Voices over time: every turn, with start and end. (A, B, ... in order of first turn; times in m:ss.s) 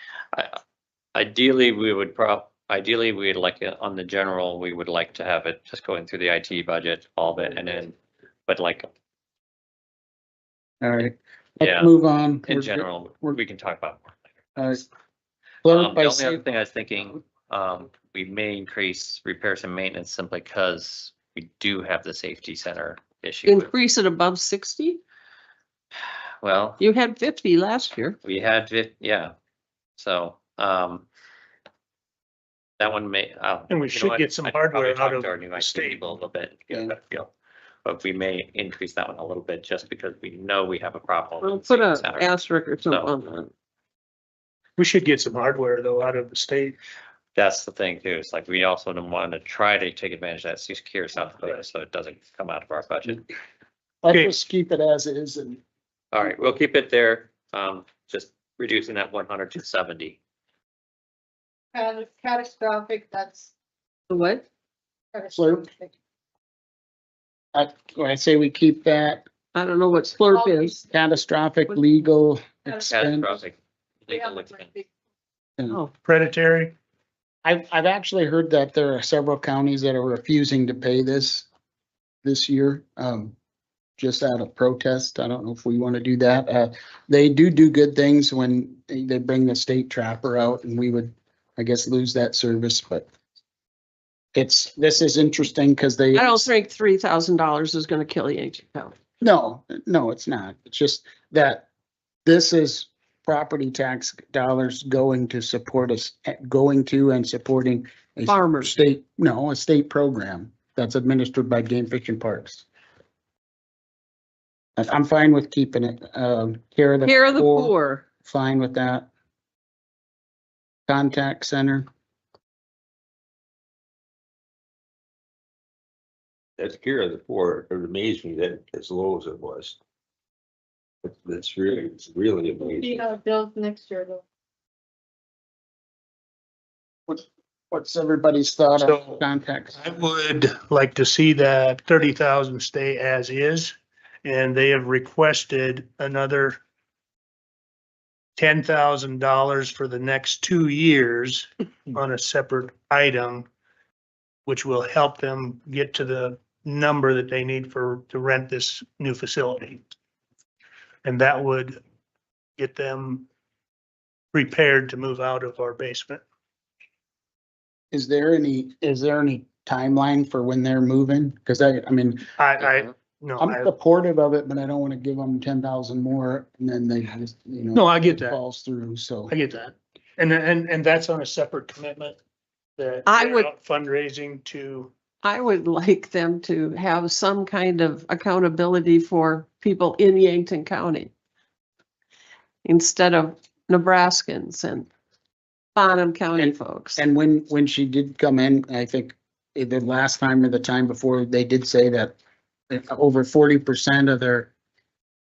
0:01.1-0:08.0 A
0:08.5-0:08.9 A
0:10.8-0:13.4 B
0:11.6-0:11.9 A
0:12.4-0:14.1 A
0:14.6-0:14.8 B
0:15.6-0:16.4 B
0:15.6-0:23.7 A
0:23.5-0:25.0 C
0:26.4-0:26.8 A
0:26.8-0:28.2 C
0:28.2-0:29.3 A
0:30.0-0:31.0 A
0:32.8-0:37.3 A
0:33.7-0:36.0 D
0:37.8-0:42.3 A
0:41.4-0:43.5 C
0:42.9-0:43.1 A
0:44.8-0:46.8 D
0:47.3-0:53.2 A
0:54.0-0:55.6 B
0:56.1-1:00.2 A
1:01.7-1:03.5 E
1:04.1-1:04.4 C
1:05.1-1:05.9 E
1:05.3-1:05.7 B
1:07.5-1:09.2 B
1:09.5-1:10.8 C
1:10.3-1:10.8 E
1:10.9-1:13.3 B
1:12.9-1:14.7 A
1:14.1-1:14.8 E
1:16.0-1:16.8 D
1:17.4-1:21.5 B
1:22.2-1:23.3 B
1:24.0-1:33.1 B
1:34.3-1:36.5 B
1:36.1-1:38.9 C
1:39.2-1:41.6 B
1:42.2-1:52.6 B
1:48.3-1:48.7 C
1:54.8-1:59.1 B
1:57.0-1:58.0 C
2:00.9-2:01.9 B
2:06.6-2:09.8 F
2:11.0-2:13.0 F
2:12.8-2:14.2 E
2:17.1-2:19.8 B
2:18.8-2:19.2 D
2:19.8-2:26.6 D
2:28.4-2:33.5 D
2:34.4-2:39.8 D
2:41.0-2:41.8 D
2:42.6-2:43.3 D
2:44.3-2:46.2 D
2:47.9-2:52.3 B
2:52.4-2:53.7 D
2:53.4-2:59.3 B
2:57.7-2:58.4 D
2:59.3-3:02.2 D
3:02.8-3:04.9 D
3:03.0-3:03.5 C
3:05.2-3:11.1 C
3:12.6-3:14.9 C
3:15.7-3:17.0 C
3:16.4-3:22.2 B
3:22.7-3:24.5 B